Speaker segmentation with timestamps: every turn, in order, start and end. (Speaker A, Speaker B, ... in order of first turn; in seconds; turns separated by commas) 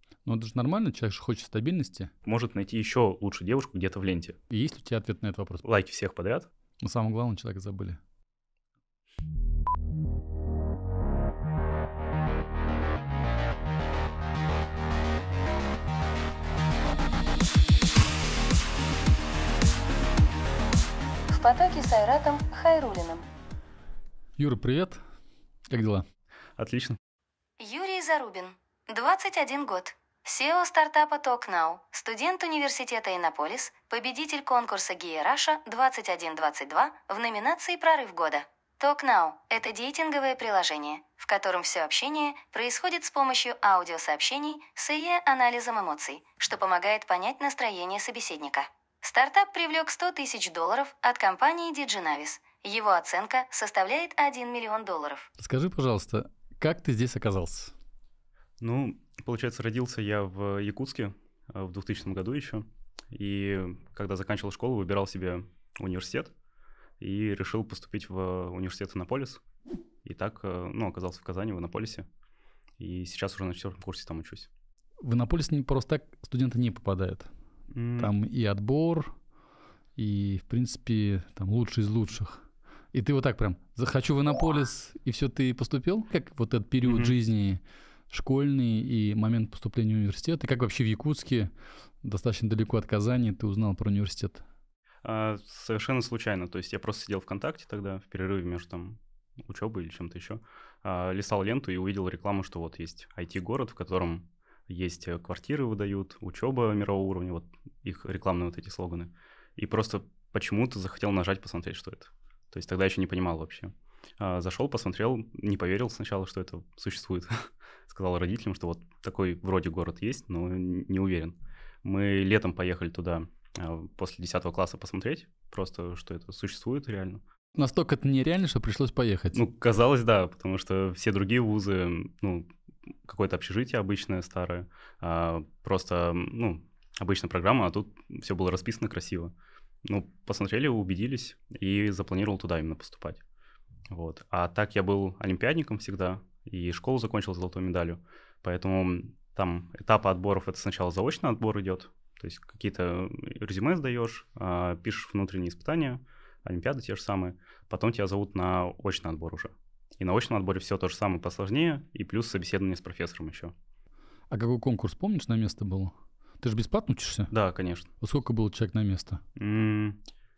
Speaker A: 0.3-2.1, Speaker B: 2.2-4.4, Speaker A: 4.5-5.6, Speaker B: 5.6-6.5, Speaker A: 6.8-8.0, Speaker C: 21.3-23.3, Speaker A: 24.4-25.0, Speaker A: 25.7-26.1, Speaker B: 26.6-27.0, Speaker C: 27.6-55.3, Speaker A: 55.4-57.7, Speaker B: 58.6-66.3, Speaker B: 67.0-69.4, Speaker B: 70.0-72.1, Speaker B: 72.8-74.5, Speaker A: 75.0-77.3, Speaker B: 77.7-78.1, Speaker A: 78.0-79.2, Speaker A: 80.0-91.5, Speaker B: 86.8-87.1, Speaker A: 92.0-94.4, Speaker B: 95.0-127.2, Speaker A: 127.5-129.4, Speaker B: 129.3-132.5, Speaker B: 133.1-139.3, Speaker B: 139.8-143.2, Speaker B: 143.9-163.5, Speaker A: 164.3-167.3, Speaker B: 167.3-167.9, Speaker A: 168.0-169.2, Speaker B: 169.4-170.0